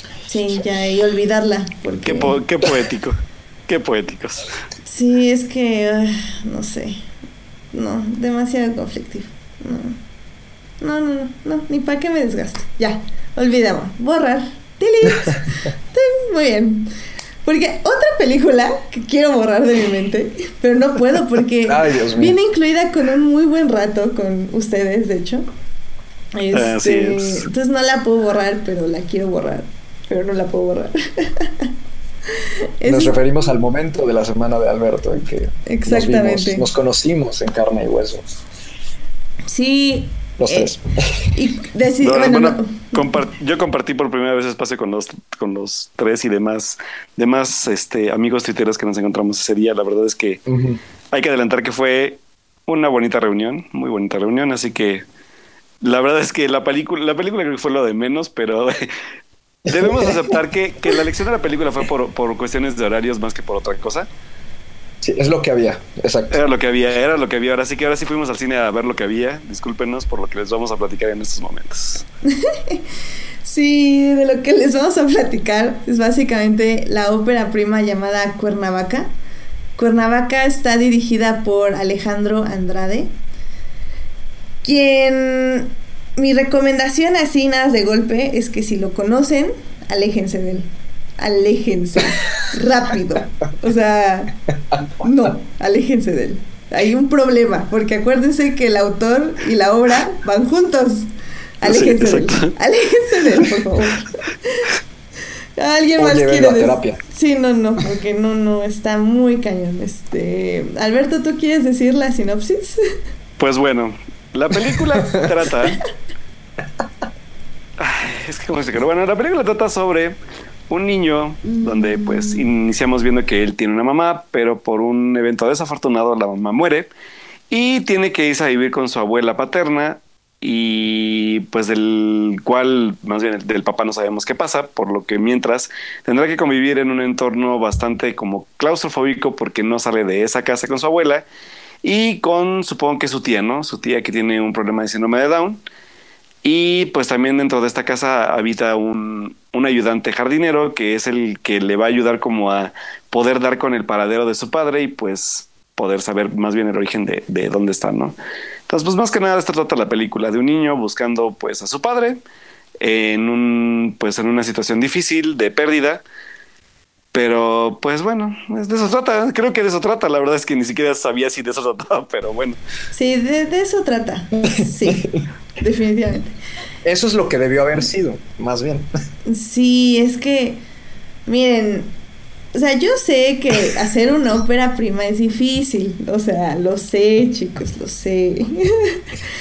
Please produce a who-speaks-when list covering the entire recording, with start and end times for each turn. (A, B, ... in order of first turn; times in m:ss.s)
0:00.3-0:02.4 A
0:02.0-0:04.5 B
0:04.8-0:07.0 A
0:07.7-0:10.0 A
0:10.8-0:16.9 A
0:17.4-0:25.4 A
0:21.6-0:22.4 C
0:26.4-0:31.7 A
0:26.5-0:27.5 B
0:32.4-0:33.2 A
0:32.8-0:38.2 C
0:35.6-0:36.7 A
0:39.5-0:40.7 A
0:40.4-0:41.3 C
0:41.3-0:43.2 A
0:42.0-0:50.4 B
0:50.5-0:50.8 C
0:51.1-0:55.0 B
0:55.8-0:58.9 B
0:59.6-1:04.1 B
0:59.7-1:00.3 C
1:05.0-1:06.4 C
1:06.3-1:12.0 B
1:12.3-1:12.8 A
1:13.4-1:19.1 A
1:19.8-1:23.1 A
1:24.6-1:34.3 A
1:35.0-1:41.1 A
1:41.6-1:44.7 A
1:41.6-1:42.5 B
1:45.6-1:52.8 A
1:46.0-1:47.0 C
1:53.4-1:55.8 B
1:55.0-1:55.3 C
1:57.8-2:00.2 B
2:00.7-2:06.9 B
2:01.6-2:02.4 A
2:07.5-2:21.2 B
2:21.8-2:25.6 B
2:26.4-2:38.2 B
2:38.7-2:42.2 B
2:42.8-2:46.0 B
2:47.1-2:52.6 B
2:52.9-2:55.1 A
2:54.5-2:55.2 C
2:55.6-2:56.4 A
2:56.8-2:58.9 C
2:59.2-3:00.6 A
3:01.3-3:01.9 A
3:02.5-3:09.0 A